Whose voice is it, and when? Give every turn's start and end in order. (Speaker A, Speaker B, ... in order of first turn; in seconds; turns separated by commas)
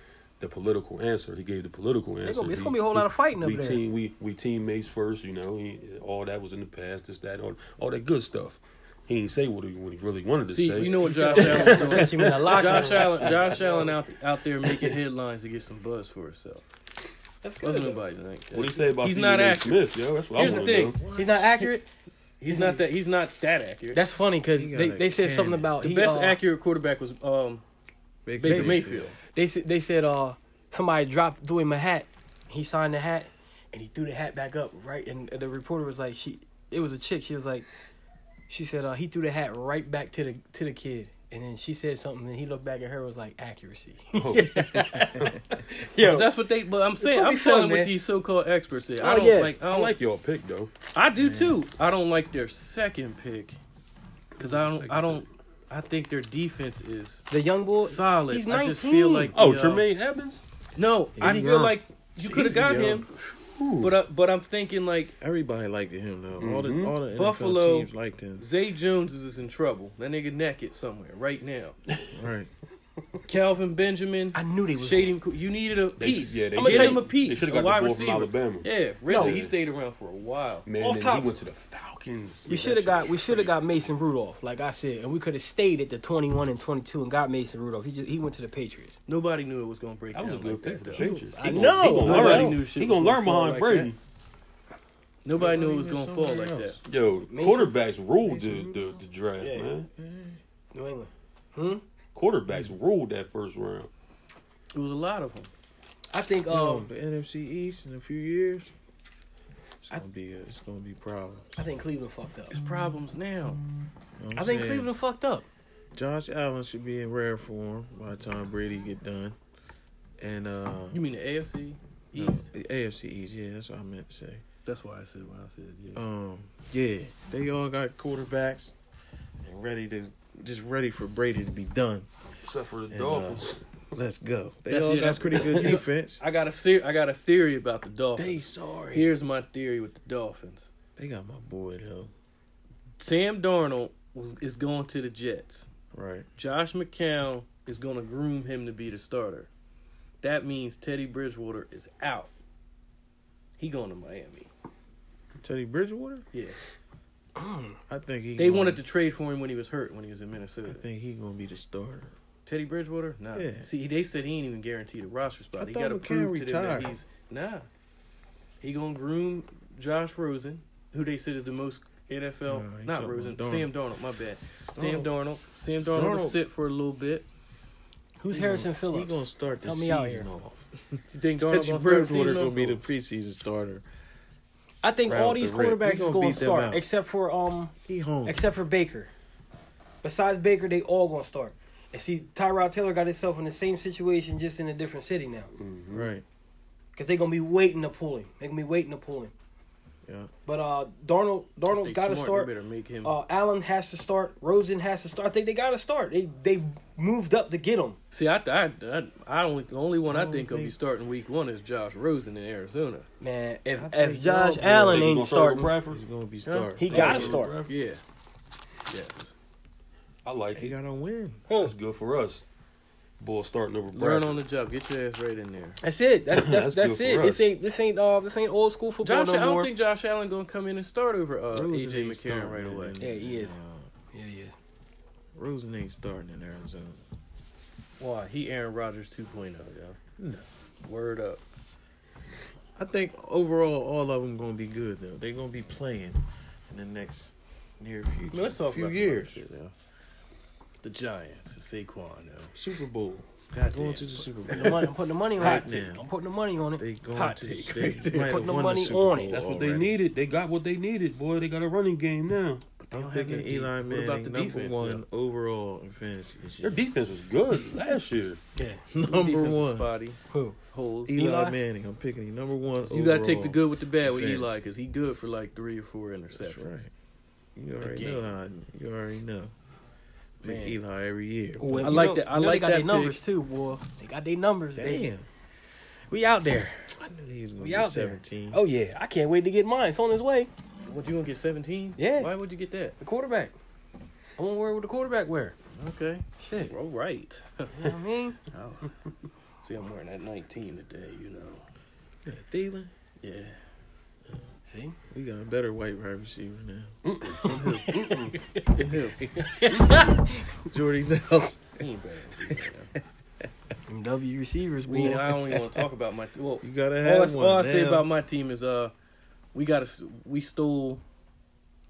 Speaker A: 0.4-13.7, Speaker B: 2.2-3.8, Speaker C: 10.5-16.6, Speaker B: 10.8-13.9, Speaker B: 17.4-18.0, Speaker C: 17.6-21.0, Speaker A: 18.5-21.0, Speaker B: 20.4-21.9, Speaker D: 20.9-21.5, Speaker B: 22.4-22.8, Speaker C: 22.4-24.0, Speaker B: 23.9-26.4, Speaker D: 24.5-25.7, Speaker C: 25.8-27.6, Speaker D: 28.2-29.1, Speaker C: 28.4-29.1, Speaker B: 28.5-28.8, Speaker B: 29.3-37.7, Speaker B: 38.5-46.3, Speaker A: 44.1-45.5, Speaker D: 44.7-45.2, Speaker C: 46.0-49.9, Speaker B: 47.0-47.9, Speaker B: 49.0-49.5, Speaker A: 49.6-50.7, Speaker C: 50.9-53.6, Speaker D: 51.1-51.6, Speaker A: 54.4-55.2, Speaker C: 54.4-57.2, Speaker B: 57.3-59.3, Speaker C: 57.8-59.9, Speaker A: 59.3-60.4, Speaker C: 60.8-63.1, Speaker D: 61.1-63.1, Speaker A: 63.5-63.9, Speaker C: 63.8-65.1, Speaker D: 65.2-68.5, Speaker A: 66.4-66.9, Speaker C: 67.1-71.8, Speaker D: 72.1-72.5, Speaker C: 73.3-80.7, Speaker B: 74.3-75.1, Speaker A: 76.0-79.5, Speaker B: 76.5-77.1, Speaker B: 79.1-79.4, Speaker A: 80.7-83.9, Speaker B: 80.8-81.3, Speaker B: 82.5-89.0, Speaker C: 89.1-93.9, Speaker A: 90.1-94.0, Speaker B: 90.9-92.6, Speaker C: 95.2-96.8, Speaker D: 95.3-96.8, Speaker A: 96.8-99.9, Speaker B: 97.3-97.7, Speaker D: 98.2-98.8, Speaker C: 99.4-99.7, Speaker D: 99.9-100.4, Speaker B: 100.7-101.8, Speaker A: 102.1-103.9, Speaker D: 102.5-102.7, Speaker C: 104.7-105.5, Speaker B: 106.1-106.9, Speaker D: 106.5-108.7, Speaker D: 109.8-111.6, Speaker B: 111.5-112.6, Speaker C: 112.5-113.6, Speaker D: 114.2-114.9, Speaker B: 114.3-115.5, Speaker D: 115.9-119.4, Speaker D: 120.2-121.0, Speaker C: 120.9-122.5, Speaker D: 122.1-124.4, Speaker C: 124.7-126.0, Speaker D: 125.9-128.8, Speaker D: 129.4-132.1, Speaker A: 132.4-133.6, Speaker D: 132.9-136.2, Speaker C: 134.7-140.7, Speaker D: 138.2-139.1, Speaker D: 141.0-142.1, Speaker C: 143.0-145.7, Speaker D: 145.9-146.3, Speaker C: 146.4-149.5, Speaker C: 150.2-152.3, Speaker C: 153.6-154.5, Speaker D: 155.4-156.2, Speaker B: 157.3-157.8, Speaker D: 157.9-158.8, Speaker C: 158.4-160.8, Speaker D: 160.6-162.1, Speaker C: 162.4-167.7, Speaker D: 163.3-163.7, Speaker D: 165.6-167.0, Speaker C: 168.6-177.2, Speaker D: 172.4-173.7, Speaker D: 174.7-175.1, Speaker D: 175.9-176.4, Speaker B: 178.2-180.3, Speaker D: 178.3-183.8, Speaker C: 181.1-182.8, Speaker B: 184.8-187.7, Speaker D: 185.0-186.8, Speaker D: 187.8-188.4, Speaker B: 188.2-189.1, Speaker B: 190.0-195.5, Speaker A: 195.6-196.1, Speaker D: 195.9-196.2, Speaker B: 196.9-199.3, Speaker D: 200.1-200.3, Speaker B: 200.4-202.5, Speaker C: 201.7-203.1, Speaker B: 203.0-208.0, Speaker C: 208.1-213.1, Speaker D: 210.1-210.7, Speaker B: 213.2-215.7, Speaker D: 213.8-215.2, Speaker A: 214.8-216.0, Speaker D: 215.9-217.4, Speaker C: 216.4-218.0, Speaker B: 216.8-217.5, Speaker A: 216.8-217.7, Speaker C: 218.9-219.3, Speaker A: 220.2-220.8, Speaker D: 220.5-221.4, Speaker B: 221.5-221.7, Speaker A: 221.6-222.4, Speaker A: 223.2-224.4, Speaker C: 223.9-225.8, Speaker B: 225.8-229.7, Speaker A: 226.3-227.5, Speaker C: 229.0-233.0, Speaker D: 231.5-233.9, Speaker B: 233.0-233.6, Speaker B: 234.1-234.6, Speaker D: 235.3-237.0, Speaker C: 238.0-240.0, Speaker D: 240.2-240.4, Speaker C: 240.8-241.4, Speaker D: 242.8-249.4, Speaker C: 248.3-249.7, Speaker C: 250.8-252.5, Speaker D: 252.5-256.1, Speaker C: 253.6-254.3, Speaker B: 254.5-256.8, Speaker D: 256.8-259.9, Speaker C: 257.1-258.6, Speaker B: 258.1-259.4, Speaker A: 259.3-262.6, Speaker C: 262.8-265.0, Speaker D: 262.9-266.8, Speaker A: 266.6-268.4, Speaker B: 268.6-268.9, Speaker D: 268.9-269.9, Speaker C: 269.0-270.2, Speaker B: 270.3-270.6, Speaker C: 270.7-271.1, Speaker D: 271.1-274.6, Speaker B: 271.1-271.6, Speaker C: 272.8-276.8, Speaker D: 276.3-276.9, Speaker D: 277.5-279.5, Speaker C: 277.8-278.3, Speaker D: 280.4-282.0, Speaker C: 280.4-280.8, Speaker B: 281.6-285.1, Speaker C: 281.8-283.2, Speaker D: 284.7-285.2, Speaker B: 286.1-286.9, Speaker D: 286.9-288.6, Speaker B: 287.6-290.5, Speaker C: 290.9-293.0, Speaker B: 292.0-292.3, Speaker B: 293.0-293.6, Speaker B: 294.4-295.6, Speaker C: 295.7-298.0, Speaker B: 296.4-296.8, Speaker B: 297.8-298.4, Speaker C: 298.5-298.9, Speaker C: 299.6-301.6, Speaker D: 302.2-302.9, Speaker C: 303.2-303.6, Speaker B: 304.7-304.9, Speaker D: 305.1-306.9, Speaker A: 307.0-308.3, Speaker C: 307.4-308.2, Speaker B: 307.4-308.6, Speaker C: 308.7-309.2, Speaker B: 309.4-310.5, Speaker D: 309.9-310.1, Speaker D: 310.6-311.6, Speaker C: 311.8-312.9, Speaker B: 313.9-315.5, Speaker C: 314.9-318.9, Speaker D: 316.6-318.1, Speaker C: 319.5-321.0